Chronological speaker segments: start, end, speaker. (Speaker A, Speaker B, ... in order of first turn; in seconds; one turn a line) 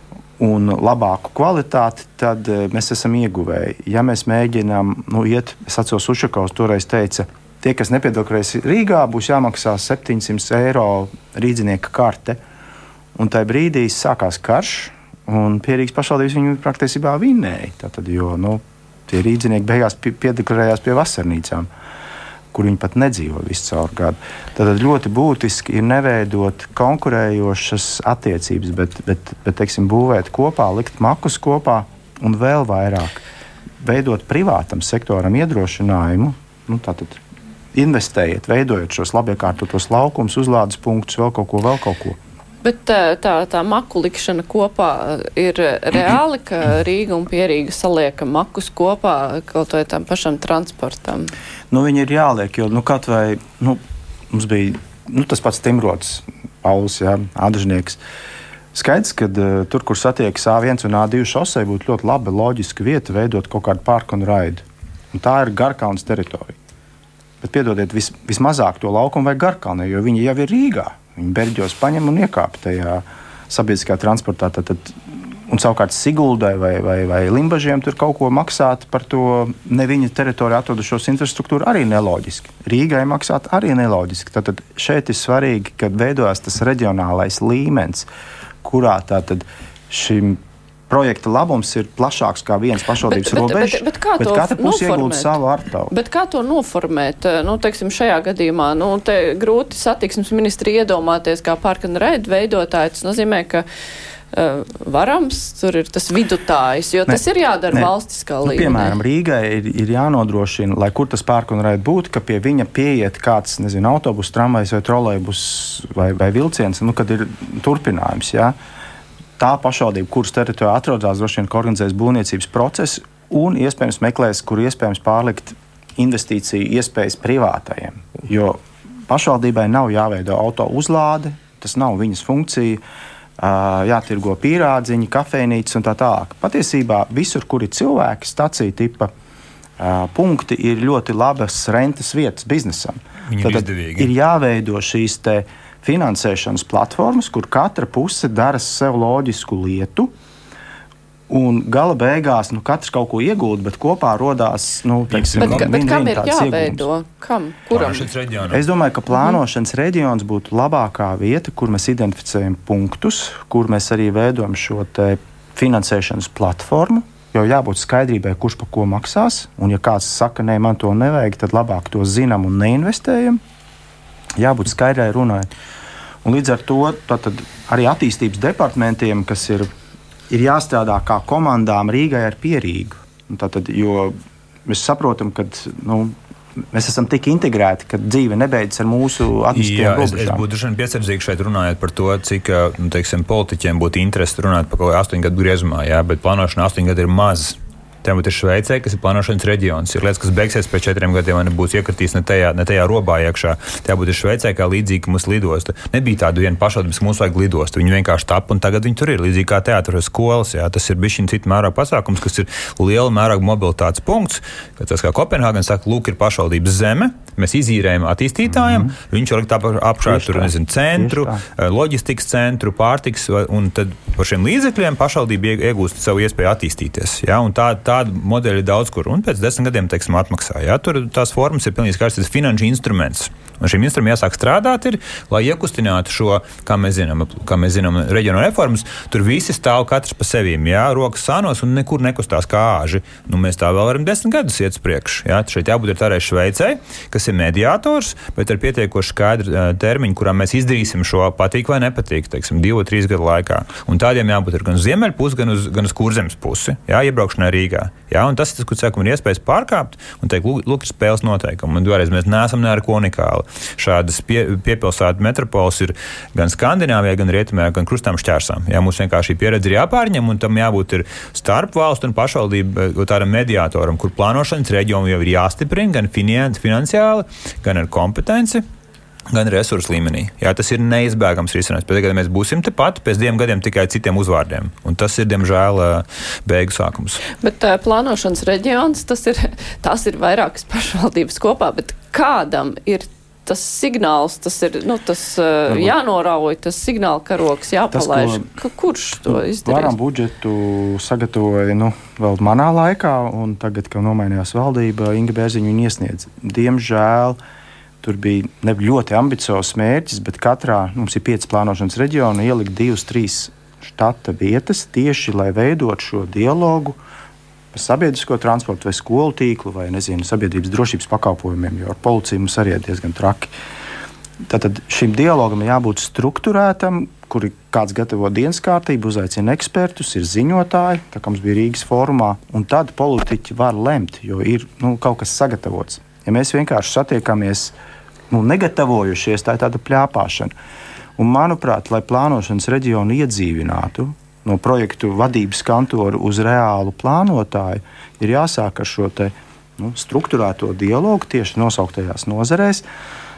Speaker A: 0.4-12.4
Speaker A: 13.2-21.7
Speaker A: 22.5-33.2
Speaker A: 33.8-37.2
Speaker A: 37.7-42.2
Speaker B: 42.6-51.3
Speaker A: 51.7-58.0
Speaker A: 58.7-66.6
Speaker A: 67.4-88.1
Speaker A: 88.6-95.9
Speaker B: 93.1-95.4
Speaker B: 95.9-103.7
Speaker B: 104.3-109.0
Speaker A: 107.1-107.9
Speaker A: 108.4-118.5
Speaker A: 119.4-132.8
Speaker A: 133.4-139.1
Speaker A: 139.8-150.1
Speaker C: 143.3-144.1
Speaker A: 151.3-156.9
Speaker C: 155.1-155.7
Speaker B: 155.4-158.1
Speaker C: 157.7-158.6
Speaker A: 158.5-173.4
Speaker A: 174.4-175.5
Speaker A: 176.2-179.7
Speaker A: 180.3-186.2
Speaker A: 186.7-190.4
Speaker C: 189.5-278.6
Speaker A: 218.5-218.9
Speaker A: 220.0-221.4
Speaker C: 279.3-287.2
Speaker B: 287.4-299.9
Speaker A: 297.9-298.5
Speaker A: 299.3-307.4
Speaker A: 308.0-317.0
Speaker A: 317.7-323.5
Speaker A: 324.4-337.7
Speaker A: 338.3-340.5
Speaker A: 341.2-352.8